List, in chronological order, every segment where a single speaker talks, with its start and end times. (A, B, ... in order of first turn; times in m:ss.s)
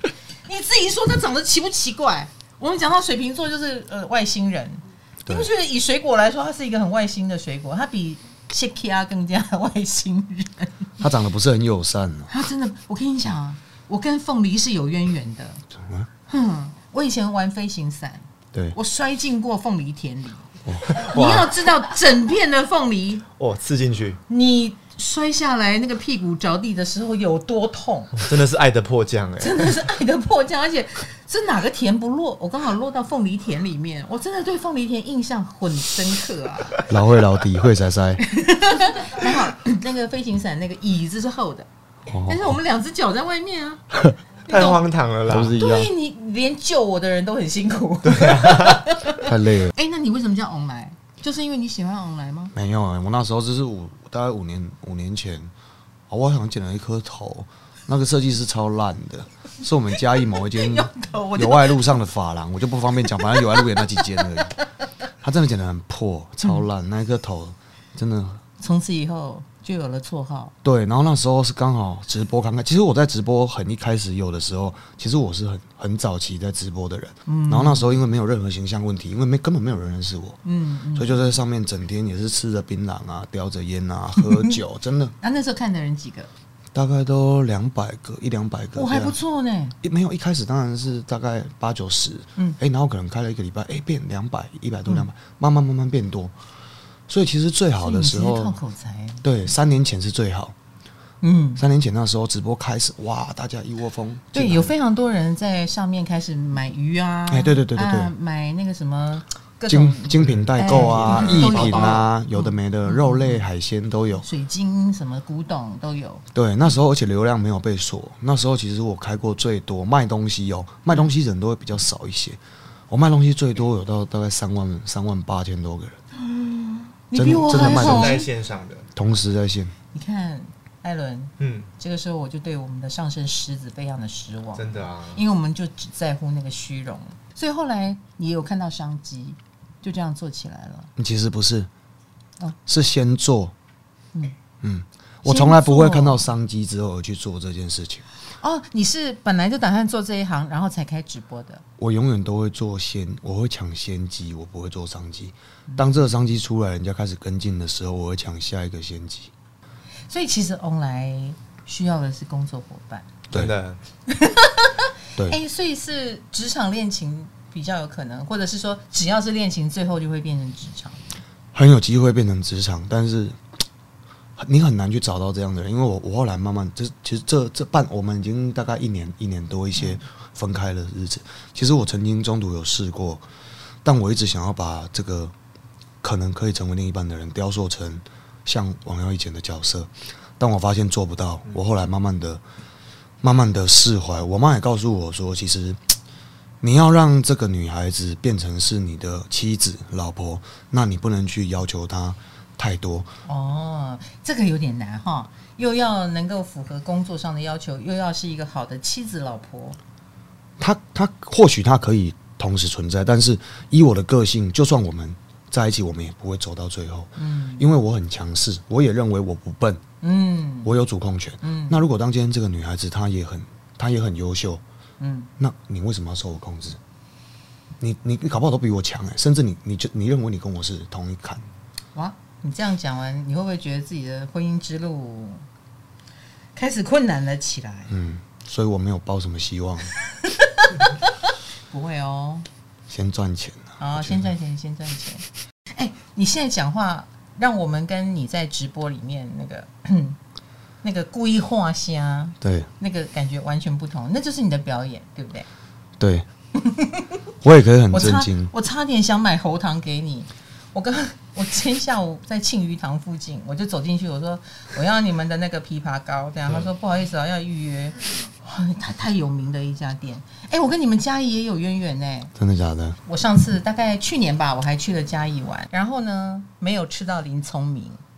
0:00.5-0:10.9 A
0:11.0-0:12.3 B
0:12.3-0:15.6 A
0:15.7-0:16.1 B
0:16.3-0:23.2 A
0:20.6-0:21.0 B
0:20.9-0:21.5 C
0:23.4-0:24.2 C
0:24.3-0:28.2 A
0:28.2-0:29.8 C
0:29.4-0:36.9 A
0:36.9-0:38.2 B
0:38.2-0:43.9 A
0:42.1-0:42.6 B
0:44.5-0:44.9 A
0:44.5-0:45.6 C
0:45.2-0:45.9 B
0:45.6-0:52.5 A
0:48.0-0:48.9 C
0:49.2-0:49.7 B
0:52.5-0:55.5 B
0:56.1-1:04.6 B
1:00.5-1:01.9 A
1:03.2-1:03.8 A
1:05.2-1:08.4 B
1:08.6-1:10.5 A
1:10.6-1:20.4 B
1:17.2-1:18.0 A
1:20.4-1:21.3 A
1:21.0-1:25.1 B
1:24.2-1:24.6 A
1:25.2-1:26.3 A
1:26.7-1:29.2 B
1:28.8-1:29.8 A
1:29.8-1:36.3 B
1:37.1-1:38.6 B
1:37.8-1:39.2 A
1:39.2-1:40.5 B
1:41.2-1:41.6 A
1:41.6-1:44.7 B
1:44.3-1:53.4 A
1:47.3-1:48.1 B
1:49.7-1:54.2 B
1:50.2-1:52.1 C
1:54.1-1:56.2 A
1:56.3-2:06.0 B
2:06.1-2:08.3 A
2:07.2-2:08.2 B
2:07.5-2:08.9 C
2:09.0-2:09.7 B
2:09.9-2:20.9 A
2:11.4-2:11.7 C
2:14.6-2:15.2 C
2:21.0-2:21.7 B
2:22.7-2:23.5 B
2:24.6-2:28.0 B
2:25.2-2:26.2 A
2:28.4-2:31.6 A
2:31.8-2:39.3 B
2:35.7-2:36.0 A
2:40.1-2:43.1 A
2:43.3-2:43.8 C
2:44.1-2:51.0 A
2:51.5-2:53.4 B
2:54.4-3:03.2 B
2:59.8-3:00.0 A
3:03.8-3:05.3 B
3:06.0-3:12.4 B
3:13.2-3:15.8 B
3:16.6-3:23.1 B
3:23.2-3:29.8 A
3:30.6-3:39.8 B
3:37.2-3:37.7 A
3:40.0-3:40.8 A
3:40.6-3:44.6 B
3:41.4-3:41.8 A
3:45.0-3:45.3 A
3:45.4-3:46.8 B
3:47.8-3:51.4 B
3:52.0-3:55.5 A
3:56.6-3:57.9 A
3:57.9-3:59.9 B
4:00.2-4:01.0 A
4:01.7-4:02.5 A
4:02.9-4:04.3 B
4:03.8-4:10.2 A
4:10.8-4:15.5 A
4:12.4-4:12.7 B
4:16.0-4:16.2 B
4:16.6-4:17.1 A
4:17.4-4:18.5 B
4:17.9-4:32.3 A
4:32.4-4:33.0 B
4:33.0-4:38.0 A